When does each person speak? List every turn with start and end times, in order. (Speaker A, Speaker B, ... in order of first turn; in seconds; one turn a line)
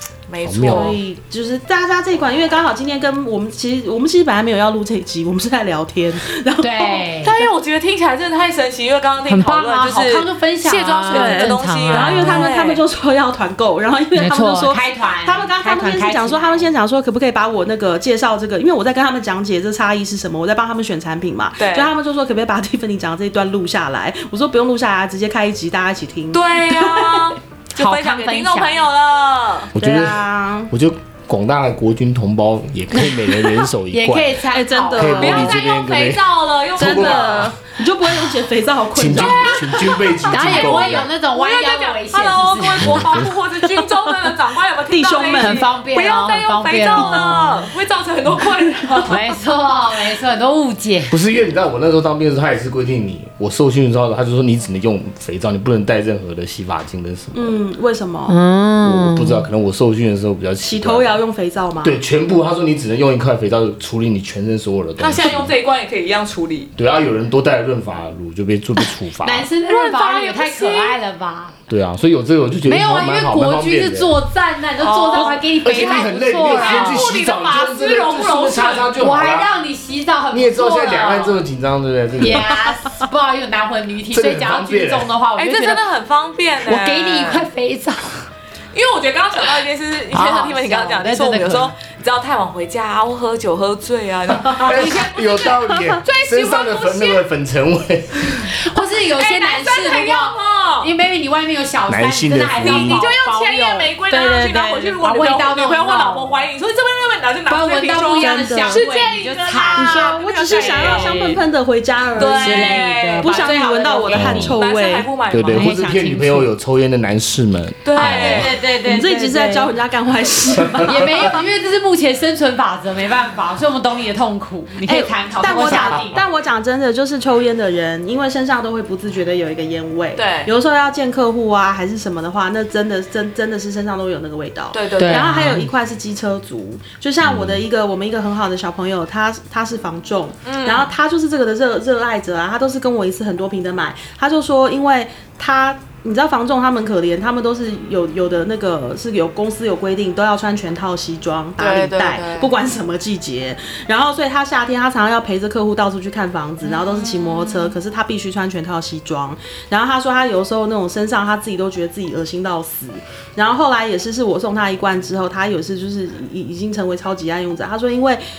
Speaker A: 0.3-1.0
Speaker B: 0.4-0.9
Speaker C: 0.6-7.0
Speaker D: 6.6-7.4
Speaker A: 7.2-12.8
Speaker D: 9.3-12.5
Speaker C: 11.1-27.4
Speaker D: 14.2-16.7
Speaker A: 21.6-21.9
Speaker A: 26.3-29.7
Speaker D: 27.8-28.7
Speaker B: 29.7-34.4
Speaker C: 29.8-30.7
Speaker D: 32.9-35.4
Speaker C: 34.5-35.6
Speaker B: 35.0-37.6
Speaker A: 35.0-37.5
Speaker C: 36.8-40.2
Speaker B: 39.0-41.1
Speaker A: 39.1-39.8
Speaker D: 40.3-43.2
Speaker A: 40.4-49.3
Speaker B: 42.8-43.3
Speaker C: 44.9-45.7
Speaker D: 45.4-47.5
Speaker C: 46.8-47.5
Speaker D: 49.0-51.2
Speaker B: 51.1-57.6
Speaker C: 57.3-58.4
Speaker D: 58.3-59.5
Speaker B: 58.8-61.2
Speaker C: 60.6-62.0
Speaker B: 61.8-65.5
Speaker A: 65.0-66.7
Speaker B: 66.8-69.5
Speaker D: 69.2-71.6
Speaker A: 69.7-71.0
Speaker B: 71.7-74.1
Speaker D: 72.7-77.2
Speaker A: 74.8-79.0
Speaker B: 75.6-79.5
Speaker D: 79.0-81.4
Speaker B: 80.3-82.7
Speaker D: 82.2-85.8
Speaker B: 84.1-85.1
Speaker A: 85.4-87.5
Speaker D: 86.6-88.3
Speaker A: 88.7-97.2
Speaker D: 90.1-91.7
Speaker B: 94.5-98.5
Speaker D: 98.5-106.3
Speaker A: 99.1-100.9
Speaker B: 101.9-103.1
Speaker A: 102.6-111.2
Speaker D: 107.5-111.4
Speaker C: 108.2-108.8
Speaker C: 109.7-115.1
Speaker A: 112.2-115.8
Speaker D: 112.2-113.6
Speaker B: 114.1-114.6
Speaker B: 115.3-118.5
Speaker D: 115.5-116.5
Speaker A: 117.8-118.6
Speaker D: 118.0-119.7
Speaker C: 118.0-121.4
Speaker B: 120.8-121.1
Speaker D: 120.8-126.2
Speaker C: 124.8-168.2
Speaker A: 130.2-130.5
Speaker A: 134.7-135.6
Speaker D: 135.0-135.7
Speaker B: 137.2-137.6
Speaker A: 140.5-140.9
Speaker A: 151.6-152.6
Speaker A: 156.6-157.7